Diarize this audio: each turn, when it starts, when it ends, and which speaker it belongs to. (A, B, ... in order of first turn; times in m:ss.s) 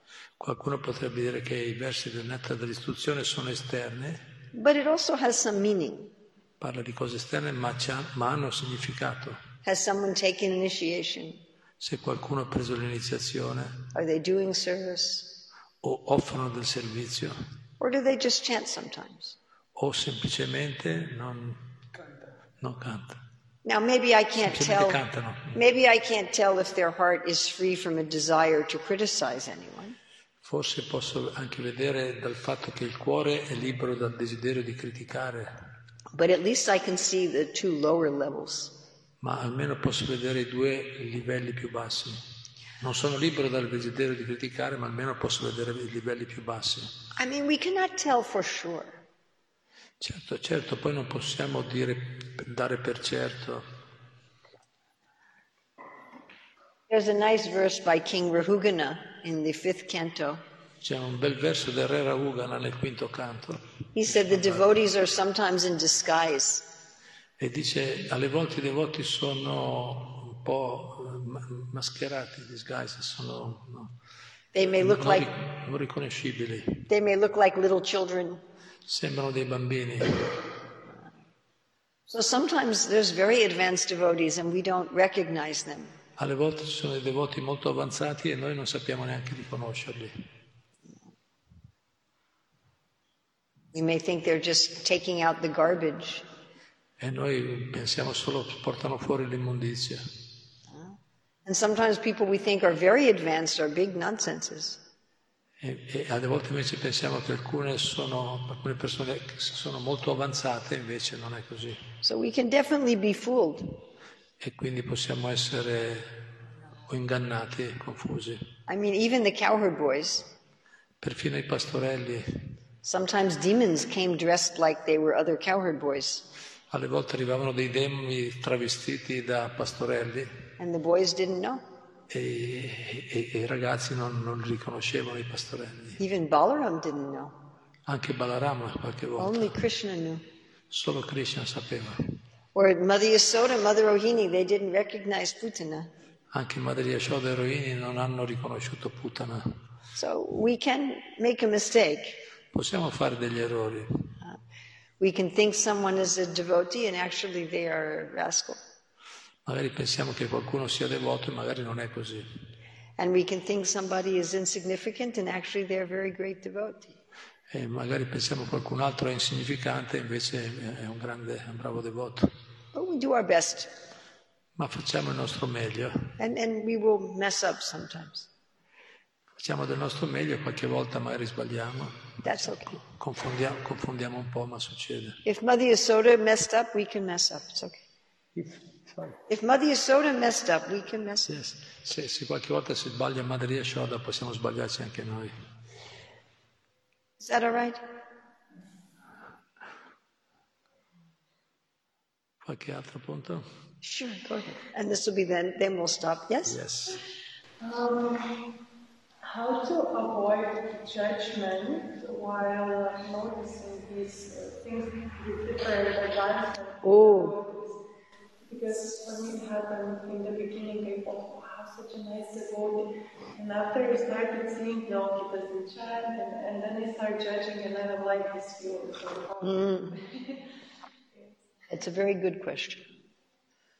0:00.4-0:04.2 A
0:04.5-0:06.1 B
0:06.6-0:09.4 A
0:09.6-0:11.4 B
0:11.8-0:13.8 A
0:13.9-0:15.3 B
0:15.8-0:17.4 A
0:17.8-0:19.4 B
0:19.7-0:21.6 A
0:22.6-0:23.2 A
0:23.6-0:25.0 B
0:24.4-0:25.6 A
0:25.5-0:30.0 B
0:30.4-0:35.5 A
0:36.1-0:38.7 B
0:39.2-0:42.2 A
0:42.8-0:46.9 A
0:47.2-0:49.0 B
0:50.0-0:53.6 A
0:56.9-1:00.4 B
1:00.8-1:04.7 A
1:03.9-1:06.6 B
1:07.4-1:13.9 A
1:14.5-1:15.3 B
1:14.6-1:16.8 A
1:16.9-1:18.4 B
1:18.8-1:20.3 A
1:22.1-1:25.9 B
1:26.2-1:30.2 A
1:33.7-1:36.2 B
1:37.0-1:40.0 A
1:40.7-1:44.8 B
1:45.6-1:51.8 A
1:52.0-1:53.8 B
1:54.4-1:56.2 A
1:56.9-1:58.4 A
1:58.7-2:00.3 B
2:01.0-2:02.3 A
2:02.8-2:06.2 B
2:06.7-2:10.3 A
2:10.6-2:11.6 B
2:12.1-2:16.0 A
2:16.0-2:17.4 B
2:17.8-2:19.6 A
2:19.2-2:20.2 B
2:20.7-2:22.0 A
2:22.5-2:25.9 B
2:26.3-2:29.4 A
2:29.9-2:32.2 B
2:32.5-2:33.9 A
2:35.0-2:38.6 B
2:39.4-2:42.3 A
2:43.0-2:47.0 B
2:47.5-2:52.3 A
2:52.7-2:53.7 B
2:54.6-2:56.0 A
2:56.2-2:58.3 B
2:59.4-3:05.2 A
3:02.2-3:02.8 B
3:05.2-3:07.8 B
3:08.3-3:09.2 A
3:09.3-3:11.3 B
3:11.2-3:15.3 A
3:17.2-3:17.8 B
3:22.4-3:23.4 A
3:23.8-3:26.6 B
3:26.4-3:27.0 A
3:27.6-3:28.4 C
3:29.2-3:37.8 C
3:36.8-3:37.3 B
3:38.5-3:50.4 C
3:49.4-3:50.0 B
3:51.7-3:52.8 B